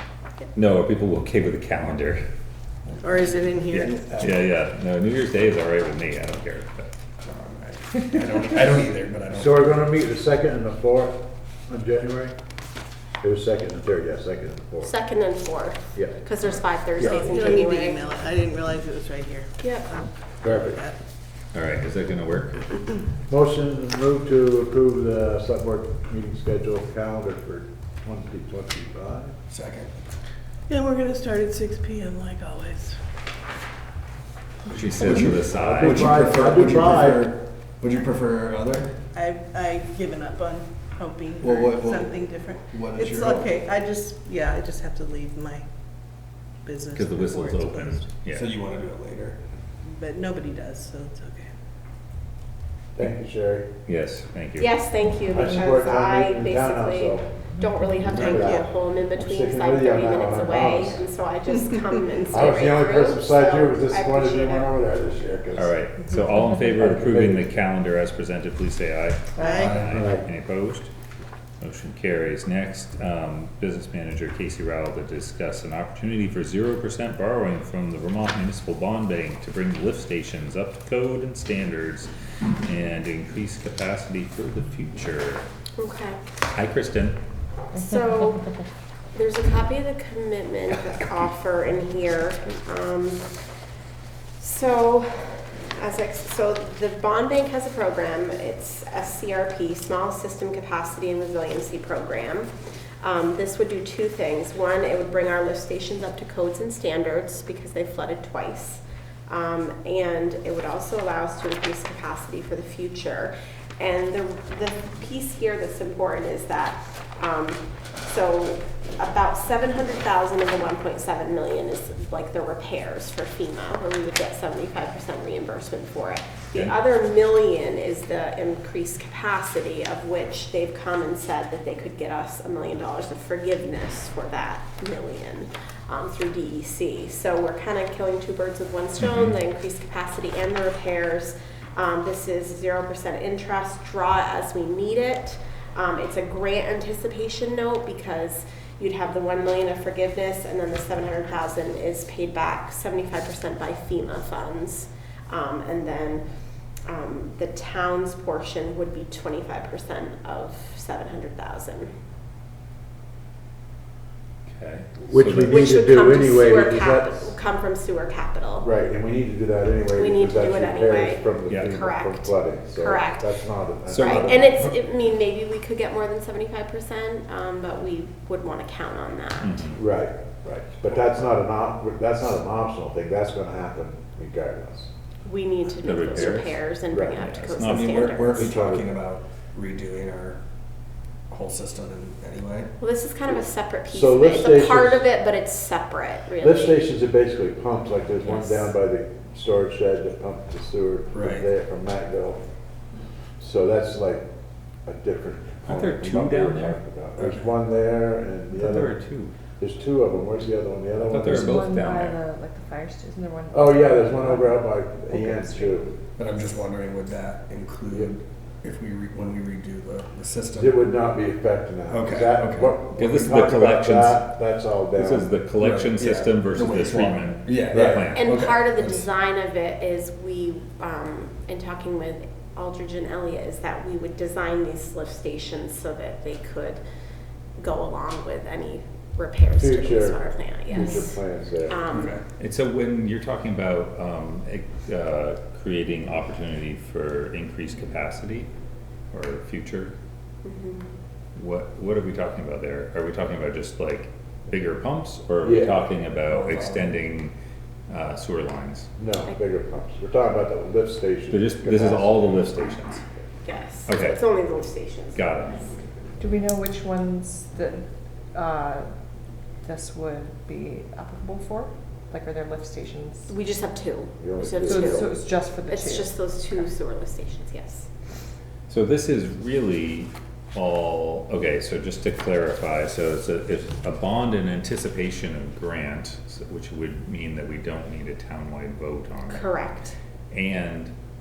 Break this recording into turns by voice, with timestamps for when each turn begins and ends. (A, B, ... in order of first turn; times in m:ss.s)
0:00.6-0:02.2 A
0:03.0-0:04.0 B
0:03.7-0:06.9 A
0:03.8-0:04.6 C
0:07.2-0:10.0 C
0:09.3-0:12.3 D
0:13.2-0:14.9 D
0:14.8-0:18.0 E
0:17.0-0:17.5 D
0:17.0-0:21.0 B
0:19.6-0:19.9 E
0:20.4-0:20.8 D
0:21.5-0:22.8 A
0:23.3-0:29.3 D
0:29.5-0:30.0 C
0:30.7-0:33.0 B
0:34.7-0:36.2 A
0:35.0-0:39.0 C
0:35.5-0:37.3 D
0:39.1-0:45.6 B
0:41.4-0:43.6 C
0:46.6-0:48.1 B
0:46.9-0:48.6 A
0:48.3-0:49.4 C
0:49.8-0:51.5 B
0:53.0-0:53.7 D
0:53.9-0:54.7 A
0:54.6-1:04.8 E
0:55.3-0:57.3 D
0:58.0-1:01.1 D
0:58.4-0:58.7 B
1:02.3-1:05.7 D
1:05.6-1:10.9 A
1:06.8-1:07.5 D
1:09.4-1:09.8 B
1:09.4-1:09.7 F
1:09.6-1:09.9 C
1:09.8-1:10.3 D
1:11.6-1:22.1 A
1:22.6-1:25.4 A
1:25.8-1:26.2 E
1:26.5-1:27.2 A
1:27.8-1:28.5 E
1:29.1-1:33.3 E
1:34.4-2:36.2 E
2:19.0-2:19.4 A
2:36.9-2:41.9 E
2:44.5-2:45.7 A
2:45.1-2:47.3 D
2:45.4-2:48.7 E
2:48.6-2:54.6 D
2:50.0-2:53.4 E
2:53.9-2:54.7 A
2:54.0-2:59.7 E
2:59.4-2:59.8 A
2:59.8-3:04.9 D
3:05.2-3:08.5 E
3:05.8-3:08.2 A
3:06.9-3:07.2 D
3:07.7-3:10.4 C
3:08.3-3:08.9 D
3:11.3-3:12.7 C
3:12.8-3:16.8 E
3:13.9-3:15.0 D
3:16.4-3:22.4 D
3:18.2-3:18.7 A
3:21.1-3:21.5 C
3:23.4-3:24.2 D
3:24.9-3:29.0 D
3:25.6-3:27.4 A
3:28.5-3:29.3 A
3:29.6-3:31.6 D
3:31.1-3:32.2 A
3:31.2-3:36.0 F
3:33.5-3:35.9 D
3:36.2-3:40.9 C
3:40.5-3:45.3 D
3:41.9-3:42.8 C
3:43.0-3:44.3 A
3:45.0-3:48.4 A
3:45.6-3:49.0 C
3:47.7-3:48.1 D
3:48.1-3:56.8 E
3:57.6-4:01.2 E
3:59.6-4:01.9 D
4:00.7-4:01.0 F
4:01.7-4:02.2 E
4:01.9-4:02.2 C
4:02.4-4:08.5 A
4:09.1-4:09.9 A
4:10.4-4:10.8 E
4:11.4-4:17.3 A
4:15.4-4:15.9 D
4:16.2-4:17.0 C
4:17.9-4:18.9 A
4:19.0-4:22.4 D
4:21.3-4:23.0 A
4:23.4-4:25.8 E
4:23.9-4:24.2 A
4:25.1-4:25.6 A
4:26.2-4:28.9 F
4:29.6-4:33.3 F
4:33.3-4:35.1 E
4:34.2-4:35.1 D
4:34.6-4:36.7 F
4:35.7-4:37.9 E
4:38.7-4:49.5 A
4:49.3-4:50.0 E
4:50.3-4:50.9 A